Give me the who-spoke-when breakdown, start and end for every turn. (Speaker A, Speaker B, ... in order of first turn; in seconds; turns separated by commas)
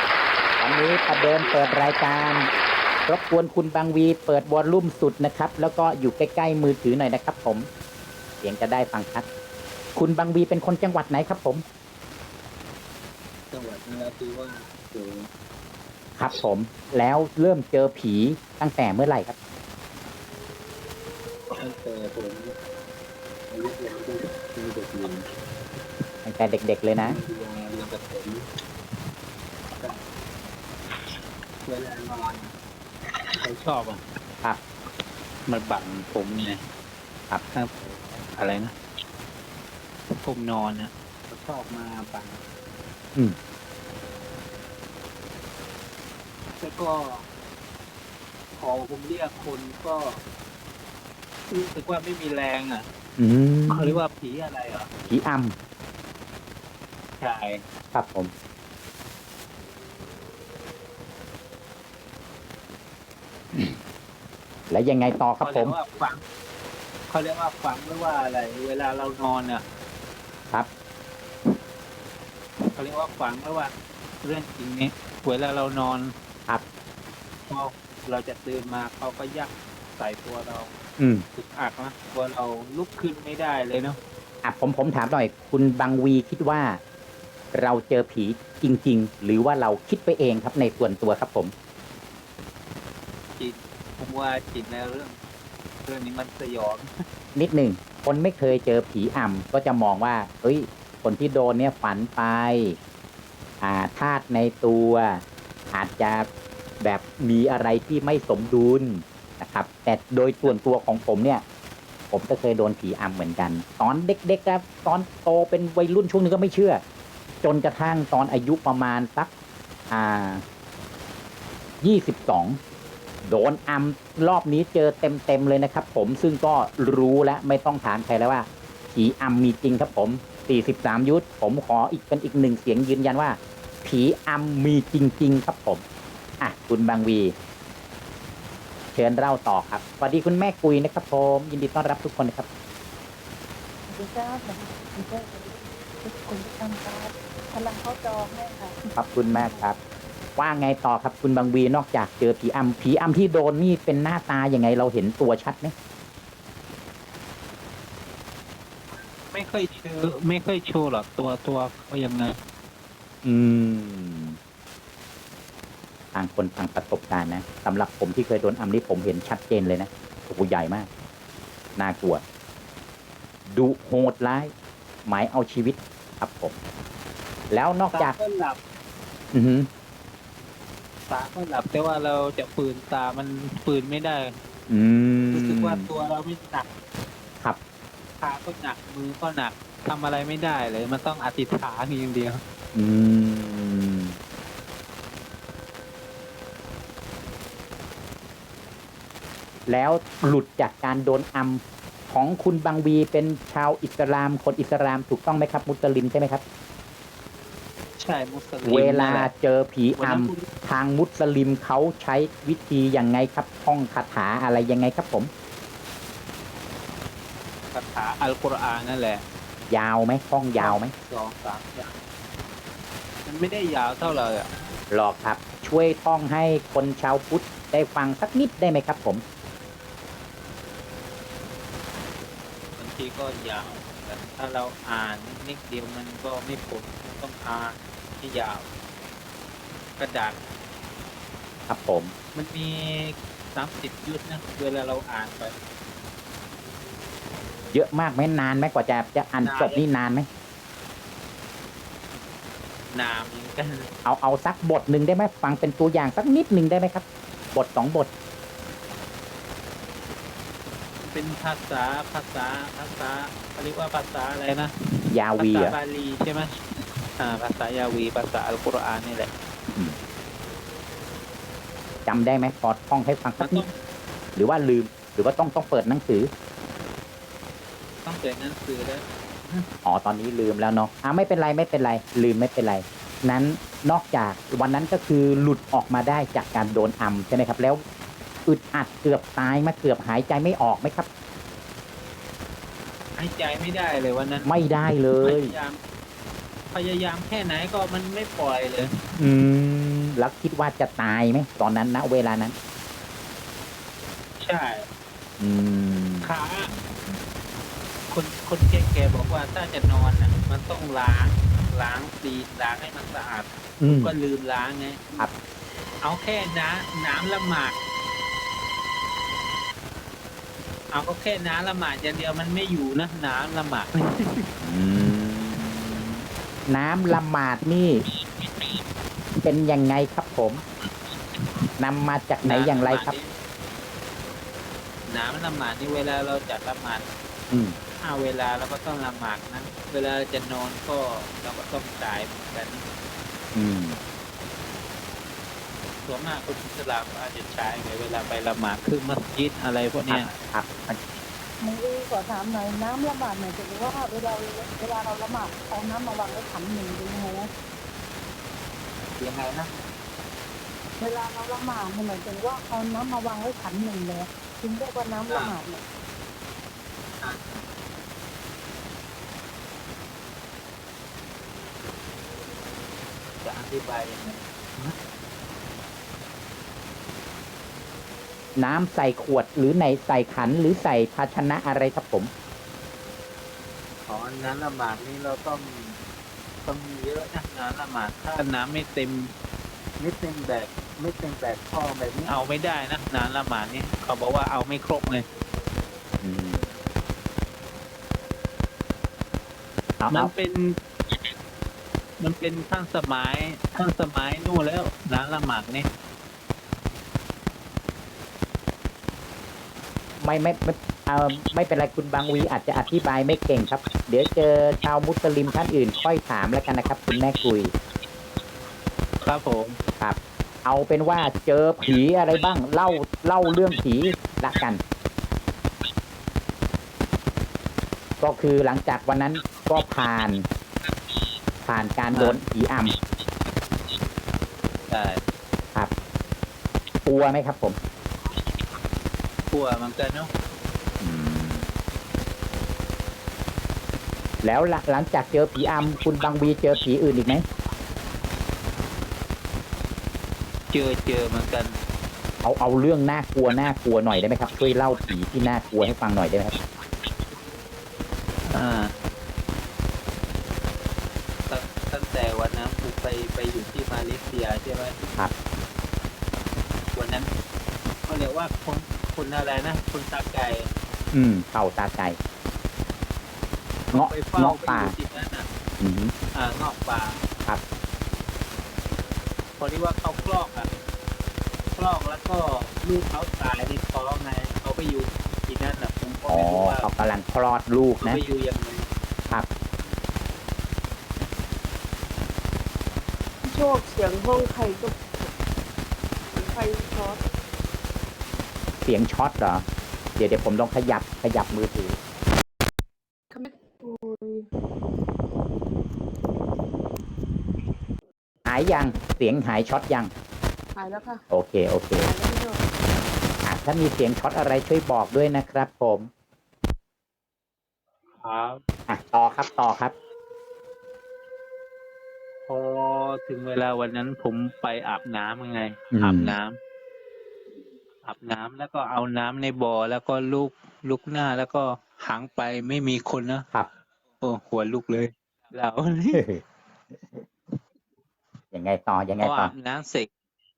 Speaker A: 0.6-2.5, Speaker B: 1.1-2.6, Speaker A: 3.1-7.7, Speaker A: 8.4-9.3, Speaker A: 9.9-11.6, Speaker B: 13.5-15.3, Speaker A: 16.2-19.4, Speaker B: 21.5-22.5, Speaker B: 23.5-25.3, Speaker A: 26.2-27.2, Speaker B: 27.0-28.4, Speaker B: 29.8-30.0, Speaker B: 31.6-32.5, Speaker B: 33.4-34.0, Speaker B: 35.5-36.6, Speaker B: 37.5-38.7, Speaker B: 40.2-42.4, Speaker B: 46.6-47.3, Speaker B: 48.6-50.2, Speaker B: 51.5-52.9, Speaker A: 53.2-54.0, Speaker B: 53.7-54.9, Speaker A: 55.1-55.5, Speaker B: 57.2-57.6, Speaker A: 57.9-58.3, Speaker A: 63.5-63.8, Speaker A: 64.7-65.8, Speaker B: 65.4-66.2, Speaker B: 67.1-69.6, Speaker B: 72.8-73.7, Speaker B: 74.2-76.1, Speaker B: 77.5-80.7, Speaker A: 81.0-81.2, Speaker B: 81.4-84.0, Speaker A: 84.4-86.8, Speaker A: 87.5-91.5, Speaker B: 93.4-95.2, Speaker B: 95.9-96.9, Speaker A: 97.3-102.8, Speaker A: 103.6-105.2, Speaker A: 105.7-106.3, Speaker A: 106.8-111.4, Speaker A: 112.1-116.8, Speaker A: 117.4-119.3, Speaker A: 119.9-120.4, Speaker A: 121.8-122.6, Speaker A: 123.2-135.8, Speaker A: 136.4-137.3, Speaker A: 138.9-142.5, Speaker C: 143.9-148.8, Speaker A: 148.9-149.8, Speaker A: 150.4-155.7, Speaker B: 159.2-162.4, Speaker A: 163.2-164.4, Speaker A: 166.1-170.9, Speaker A: 171.8-172.2, Speaker A: 173.5-174.5, Speaker A: 175.1-176.6, Speaker A: 177.5-178.2, Speaker B: 177.9-178.6, Speaker A: 179.3-179.7, Speaker B: 181.1-184.3, Speaker A: 184.7-185.9, Speaker B: 185.3-186.7, Speaker B: 188.2-192.4, Speaker A: 192.7-194.2, Speaker A: 199.7-206.4, Speaker B: 208.0-209.3, Speaker A: 208.7-215.3, Speaker B: 210.0-210.5, Speaker B: 217.7-219.2, Speaker A: 219.7-220.9, Speaker B: 220.6-222.0, Speaker B: 223.3-224.5, Speaker A: 224.9-229.2, Speaker B: 232.8-238.7, Speaker B: 240.0-240.4, Speaker A: 241.7-242.1, Speaker B: 242.3-245.6, Speaker A: 247.7-250.3, Speaker B: 249.4-249.8, Speaker B: 252.9-253.9, Speaker A: 254.1-258.1, Speaker B: 261.0-264.7, Speaker A: 265.1-265.8, Speaker B: 265.4-266.5, Speaker B: 267.2-269.3, Speaker A: 272.1-273.6, Speaker B: 273.4-273.7, Speaker A: 274.4-276.3, Speaker B: 278.1-279.7, Speaker A: 279.9-287.8, Speaker A: 288.5-291.1, Speaker B: 293.2-294.5, Speaker A: 294.4-295.5, Speaker B: 295.2-295.8, Speaker B: 296.7-298.9, Speaker A: 299.2-302.6, Speaker B: 304.4-304.9, Speaker A: 305.4-306.3, Speaker B: 306.2-306.7, Speaker B: 308.1-315.2, Speaker A: 313.8-314.1, Speaker B: 316.0-317.8, Speaker B: 320.9-324.5, Speaker A: 324.6-328.0, Speaker A: 329.4-330.6, Speaker A: 331.8-333.1, Speaker B: 332.4-333.3, Speaker B: 335.1-337.1, Speaker A: 337.5-337.8, Speaker B: 338.0-342.8, Speaker A: 343.5-344.0, Speaker B: 346.1-350.3, Speaker A: 350.1-351.0, Speaker C: 351.6-357.5, Speaker B: 359.2-359.7, Speaker C: 361.0-365.8, Speaker B: 367.2-367.6, Speaker B: 373.4-374.9, Speaker A: 378.6-382.3, Speaker B: 384.1-386.0, Speaker B: 386.6-389.3, Speaker B: 390.0-395.2, Speaker A: 396.2-396.6, Speaker A: 400.0-400.3, Speaker B: 400.1-400.8, Speaker B: 402.2-405.9, Speaker A: 410.2-417.7, Speaker B: 419.2-419.8, Speaker A: 420.0-424.8, Speaker A: 428.2-430.5, Speaker A: 431.6-432.9, Speaker B: 434.9-435.2, Speaker A: 437.1-437.8, Speaker B: 439.5-440.3, Speaker A: 441.0-441.7, Speaker A: 444.4-447.4, Speaker B: 450.7-451.8, Speaker A: 452.4-456.6, Speaker B: 458.5-458.9, Speaker B: 461.5-465.0, Speaker B: 466.9-467.3, Speaker B: 468.1-470.7, Speaker A: 471.1-472.2, Speaker B: 473.9-475.5, Speaker A: 473.9-474.9, Speaker A: 475.8-476.1, Speaker B: 476.3-477.2, Speaker B: 479.6-480.7, Speaker B: 481.8-486.9, Speaker A: 486.3-488.2, Speaker B: 488.0-488.9, Speaker D: 493.4-495.3, Speaker D: 496.3-497.2, Speaker A: 498.8-499.6, Speaker A: 500.2-502.0, Speaker D: 503.3-504.5, Speaker A: 508.5-510.1, Speaker D: 510.8-511.2, Speaker A: 511.3-512.1, Speaker D: 512.0-512.6, Speaker A: 513.4-516.1, Speaker B: 518.2-518.6, Speaker A: 518.9-519.9, Speaker B: 522.5-526.6, Speaker A: 525.9-526.4, Speaker B: 528.0-533.5, Speaker B: 534.2-536.2, Speaker A: 536.1-536.4, Speaker A: 538.5-539.5, Speaker B: 539.2-540.1